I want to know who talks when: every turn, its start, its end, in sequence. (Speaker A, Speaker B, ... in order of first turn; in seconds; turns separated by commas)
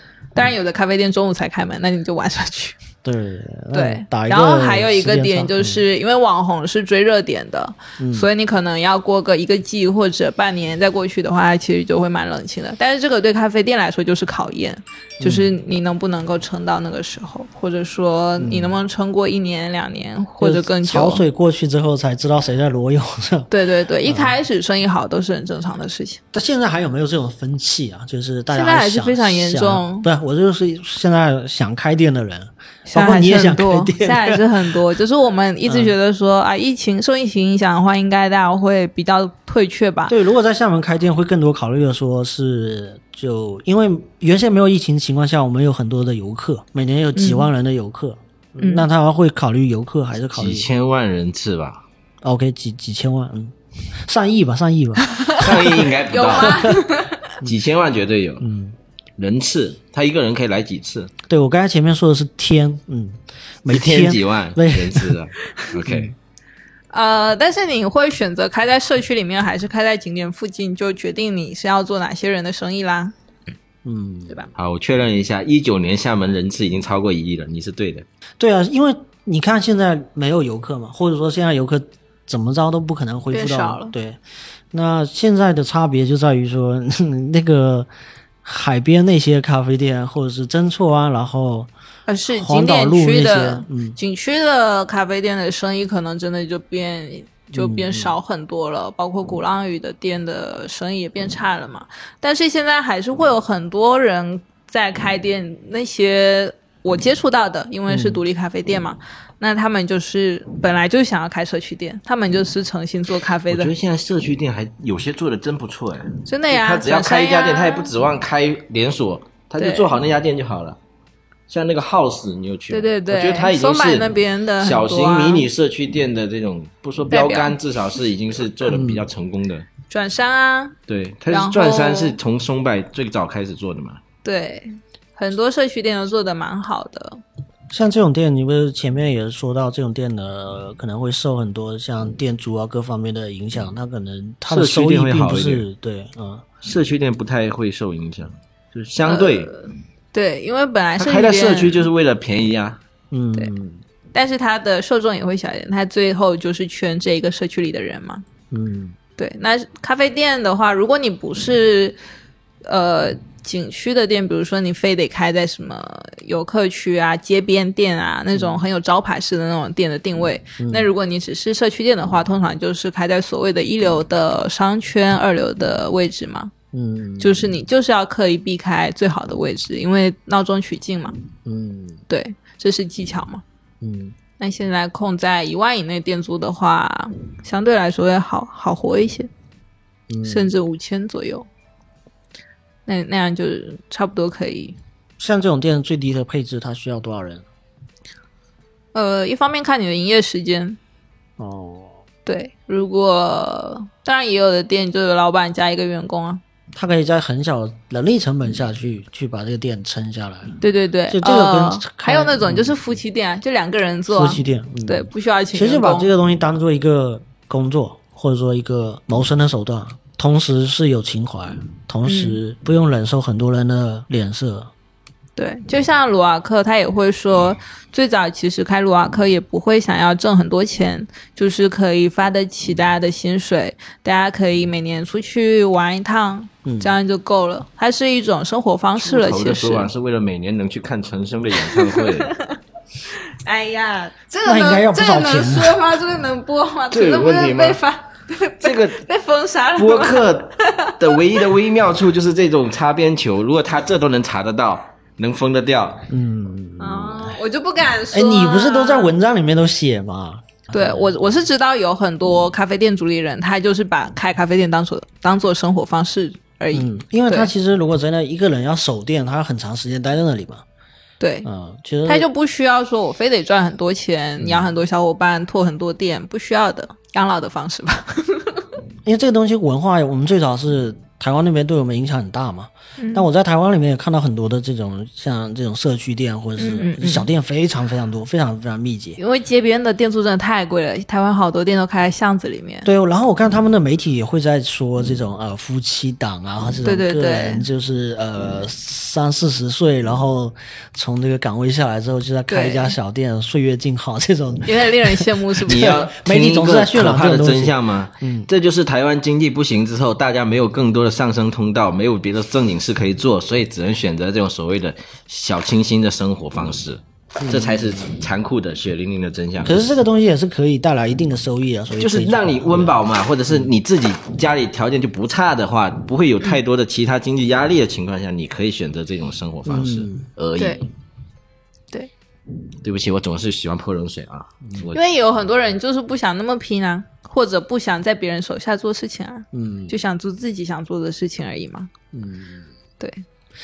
Speaker A: 0.3-2.8, Speaker B: 3.0-5.8, Speaker A: 3.7-21.2, Speaker B: 8.0-8.3, Speaker B: 15.2-15.5, Speaker B: 18.4-18.8, Speaker B: 20.4-23.5, Speaker A: 23.5-26.2, Speaker B: 24.1-24.3, Speaker B: 26.3-34.5, Speaker A: 28.5-30.1, Speaker A: 32.9-40.1, Speaker B: 35.7-35.9, Speaker B: 40.1-50.7, Speaker A: 47.2-47.5, Speaker A: 48.6-48.9, Speaker C: 50.3-51.8, Speaker B: 52.2-55.9, Speaker C: 55.3-56.7, Speaker A: 56.1-57.2, Speaker B: 56.4-56.7, Speaker C: 57.4-58.5, Speaker B: 58.4-58.8, Speaker C: 59.2-61.1, Speaker B: 61.3-65.2, Speaker C: 63.7-66.1, Speaker B: 65.9-66.1, Speaker A: 66.9-73.1, Speaker B: 73.8-74.4, Speaker C: 74.5-78.1, Speaker B: 78.4-84.2, Speaker A: 83.3-83.9, Speaker B: 84.7-87.9, Speaker B: 88.4-91.7, Speaker A: 92.1-113.7, Speaker B: 92.3-94.0, Speaker B: 97.5-98.2, Speaker B: 107.9-108.2, Speaker C: 113.5-120.8, Speaker A: 116.3-117.9, Speaker A: 119.6-119.9, Speaker C: 121.5-129.7, Speaker A: 122.7-125.5, Speaker A: 127.1-127.6, Speaker B: 128.7-129.1, Speaker A: 129.9-130.8, Speaker C: 130.9-134.0, Speaker A: 131.3-132.2, Speaker A: 134.2-137.2, Speaker B: 137.7-146.5, Speaker C: 144.5-145.7, Speaker C: 146.6-149.5, Speaker A: 149.1-149.6, Speaker A: 150.1-151.9, Speaker C: 151.0-152.8, Speaker B: 153.1-153.8, Speaker A: 154.1-158.2, Speaker B: 158.5-159.0, Speaker A: 159.2-162.0, Speaker A: 162.6-176.5, Speaker B: 168.3-168.6, Speaker B: 170.6-170.9, Speaker B: 176.7-177.5, Speaker A: 177.2-181.2, Speaker B: 181.4-182.0, Speaker A: 182.1-183.4, Speaker B: 183.8-184.2, Speaker A: 184.4-189.3, Speaker B: 190.1-190.5, Speaker A: 190.2-191.5, Speaker A: 192.9-194.8, Speaker B: 195.2-197.5, Speaker A: 198.9-200.8, Speaker B: 201.4-202.0, Speaker A: 202.3-206.4, Speaker B: 206.7-210.6, Speaker A: 210.6-216.1, Speaker B: 211.1-212.8, Speaker B: 214.1-224.7, Speaker A: 222.1-222.4, Speaker A: 225.4-239.9, Speaker B: 236.6-236.9, Speaker C: 239.0-242.3, Speaker A: 241.8-242.4, Speaker A: 243.1-251.4, Speaker B: 244.4-245.8, Speaker C: 246.9-247.8, Speaker C: 248.6-249.0, Speaker C: 249.8-256.1, Speaker B: 256.1-257.4, Speaker A: 256.8-259.1, Speaker B: 258.1-261.3, Speaker A: 260.7-267.5, Speaker B: 266.7-270.6, Speaker A: 271.2-271.5, Speaker B: 271.4-272.3, Speaker A: 272.1-278.6, Speaker B: 274.4-274.7, Speaker B: 279.1-289.2, Speaker A: 283.0-283.3, Speaker A: 286.6-287.3, Speaker A: 289.2-292.9, Speaker B: 292.9-308.5, Speaker A: 296.8-297.7, Speaker A: 302.5-302.9, Speaker A: 304.7-306.0, Speaker C: 305.7-319.9, Speaker B: 317.4-318.1, Speaker B: 319.6-323.0, Speaker C: 322.0-330.9, Speaker B: 329.7-330.3, Speaker C: 332.8-335.0, Speaker A: 334.9-341.9, Speaker B: 339.5-340.0, Speaker B: 342.1-342.7